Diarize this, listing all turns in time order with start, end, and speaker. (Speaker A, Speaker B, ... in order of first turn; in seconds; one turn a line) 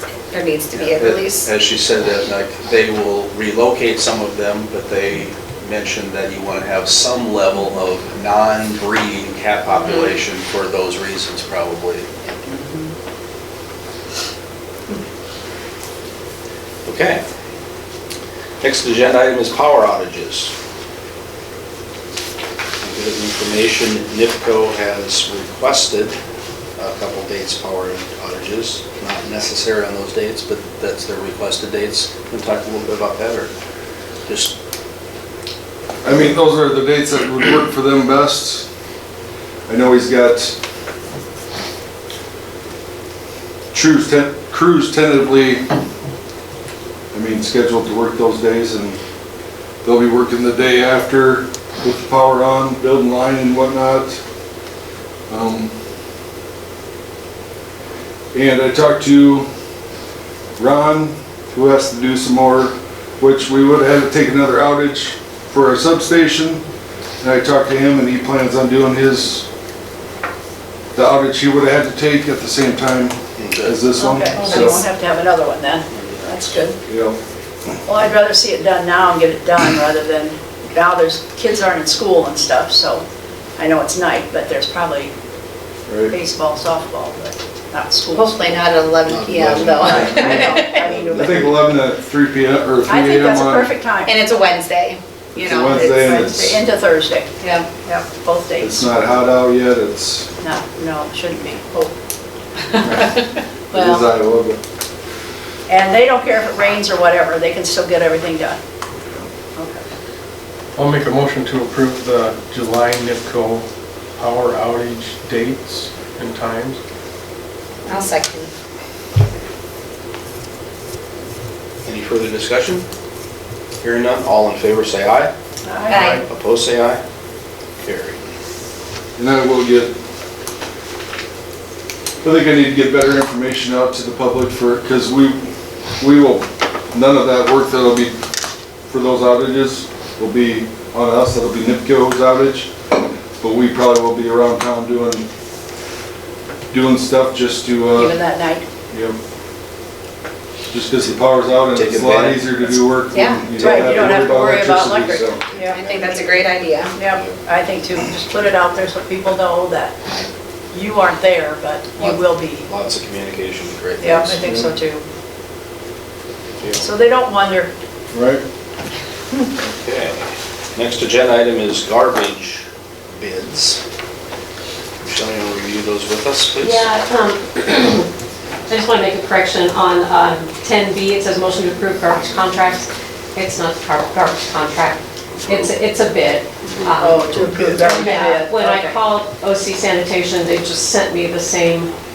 Speaker A: 0.3-1.5
Speaker B: 0.7-12.2
Speaker A: 9.8-10.2
Speaker C: 12.5-12.9
Speaker B: 16.9-17.2
Speaker B: 18.6-20.5
Speaker B: 22.8-26.2
Speaker B: 26.8-33.5
Speaker B: 34.3-34.5
Speaker D: 36.0-38.7
Speaker D: 39.7-40.6
Speaker D: 43.7-45.7
Speaker D: 47.1-49.0
Speaker D: 49.8-54.2
Speaker D: 55.3-55.7
Speaker D: 58.3-59.5
Speaker D: 60.6-66.6
Speaker D: 67.2-69.5
Speaker D: 71.0-74.8
Speaker B: 73.4-73.8
Speaker C: 74.0-76.8
Speaker E: 74.4-74.8
Speaker B: 75.9-76.6
Speaker D: 76.9-77.2
Speaker C: 77.8-83.0
Speaker C: 83.6-85.1
Speaker D: 85.9-86.1
Speaker C: 86.1-88.7
Speaker A: 88.1-90.9
Speaker B: 89.0-89.5
Speaker D: 89.5-93.7
Speaker C: 89.8-91.8
Speaker C: 92.8-94.2
Speaker A: 94.1-96.3
Speaker D: 95.4-96.6
Speaker C: 95.8-97.3
Speaker A: 97.4-97.7
Speaker C: 97.8-99.1
Speaker D: 98.6-100.3
Speaker C: 100.4-101.9
Speaker C: 102.8-103.1
Speaker D: 102.8-103.2
Speaker C: 103.7-104.1
Speaker D: 103.7-104.6
Speaker C: 105.7-108.6
Speaker C: 109.5-109.8
Speaker F: 110.8-116.8
Speaker A: 117.9-118.5
Speaker B: 121.8-122.8
Speaker B: 123.8-125.3
Speaker C: 125.6-126.2
Speaker A: 125.9-126.2
Speaker F: 125.9-126.2
Speaker B: 126.2-127.0
Speaker B: 127.8-128.2
Speaker D: 129.2-129.9
Speaker D: 132.2-138.2
Speaker D: 138.9-145.3
Speaker D: 146.7-148.2
Speaker C: 147.9-148.7
Speaker D: 148.9-149.2
Speaker D: 150.7-155.4
Speaker B: 151.7-152.7
Speaker A: 153.1-153.5
Speaker C: 153.6-155.9
Speaker B: 153.6-153.9
Speaker B: 155.5-156.5
Speaker A: 155.7-157.0
Speaker C: 156.9-160.0
Speaker C: 160.7-162.7
Speaker B: 162.0-164.4
Speaker C: 164.0-165.1
Speaker D: 164.4-164.7
Speaker B: 166.6-166.8
Speaker C: 166.8-167.7
Speaker D: 168.1-168.4
Speaker B: 169.6-173.8
Speaker B: 175.0-176.9
Speaker E: 176.6-178.1
Speaker E: 178.7-191.9
Speaker B: 185.4-185.7
Speaker B: 186.6-188.0
Speaker C: 187.0-189.0